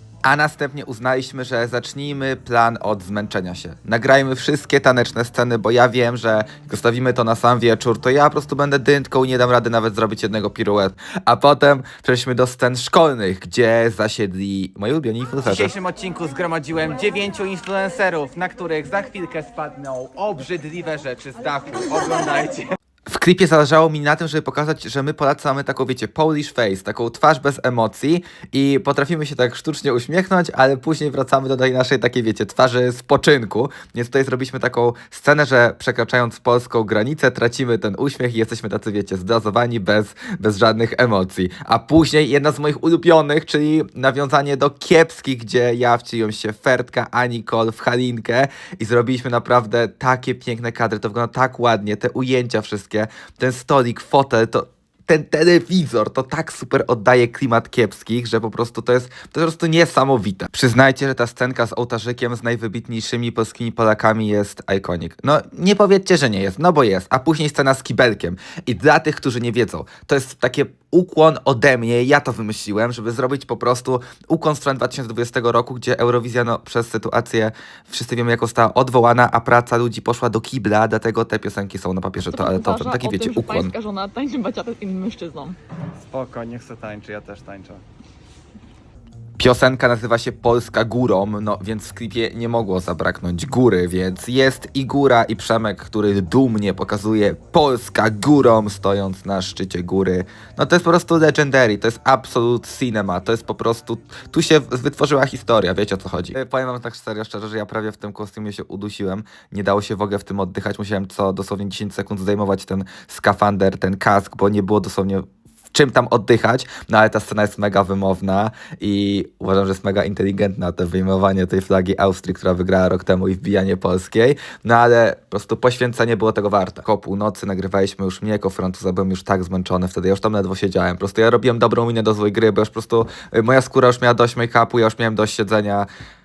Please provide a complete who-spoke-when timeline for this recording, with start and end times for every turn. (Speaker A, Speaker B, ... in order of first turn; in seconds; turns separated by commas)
Speaker A: 0.2-15.7, Speaker B: 15.4-22.7, Speaker A: 23.1-83.7, Speaker C: 82.3-85.6, Speaker B: 86.1-87.8, Speaker A: 89.4-135.9